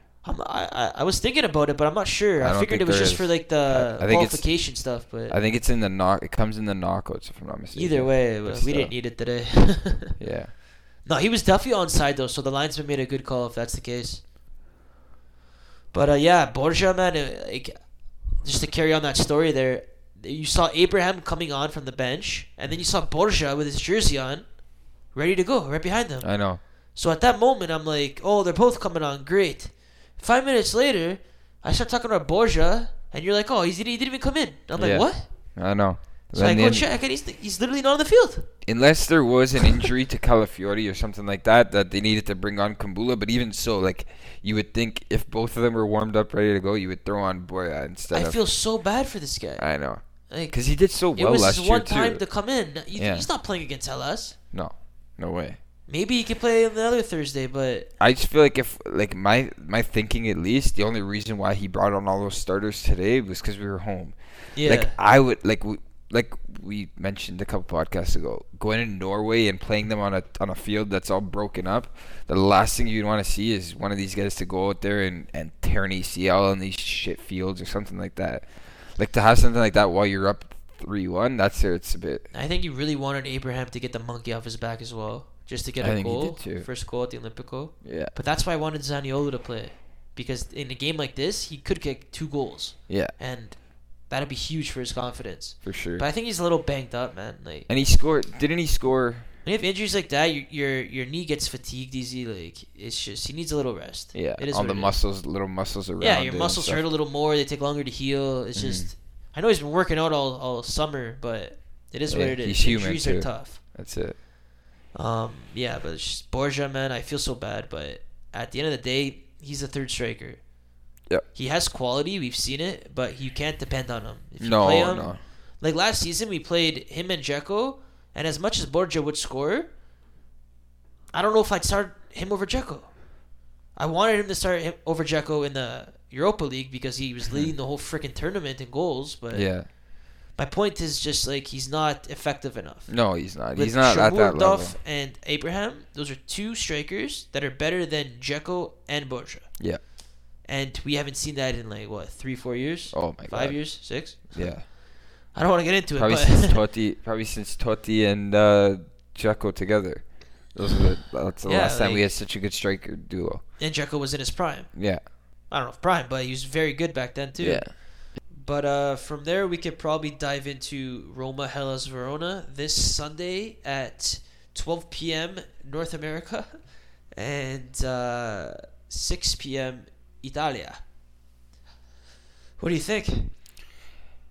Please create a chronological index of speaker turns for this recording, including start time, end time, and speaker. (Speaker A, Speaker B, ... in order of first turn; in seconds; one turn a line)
Speaker A: 0.2-5.4
Speaker B: 2.4-8.9
Speaker A: 7.7-10.2
Speaker B: 10.2-10.6
Speaker A: 11.0-14.2
Speaker A: 15.9-35.3
Speaker B: 26.2-26.6
Speaker B: 34.8-36.9
Speaker A: 36.3-38.5
Speaker B: 38.6-48.4
Speaker A: 48.1-54.4
Speaker B: 49.6-52.3
Speaker B: 52.9-53.3
Speaker B: 54.5-55.6
Speaker A: 55.9-57.9
Speaker B: 58.0-82.3
Speaker A: 64.5-65.0
Speaker A: 82.3-97.7
Speaker B: 85.8-86.7
Speaker B: 87.8-88.1
Speaker B: 92.9-93.1
Speaker B: 95.6-96.0
Speaker B: 97.7-99.3
Speaker A: 99.4-105.0
Speaker B: 104.1-106.8
Speaker A: 106.0-113.6
Speaker B: 108.5-108.9
Speaker B: 112.1-114.2
Speaker A: 114.9-120.4
Speaker A: 121.3-129.7
Speaker B: 124.4-125.2
Speaker A: 131.1-133.1
Speaker A: 133.7-139.8
Speaker B: 139.3-139.7
Speaker A: 140.3-149.5
Speaker B: 142.9-144.8
Speaker A: 150.4-156.6
Speaker B: 152.9-154.7
Speaker B: 155.9-163.4
Speaker A: 161.4-162.1
Speaker A: 163.6-180.8
Speaker B: 164.7-165.0
Speaker B: 167.4-167.8
Speaker A: 182.6-183.3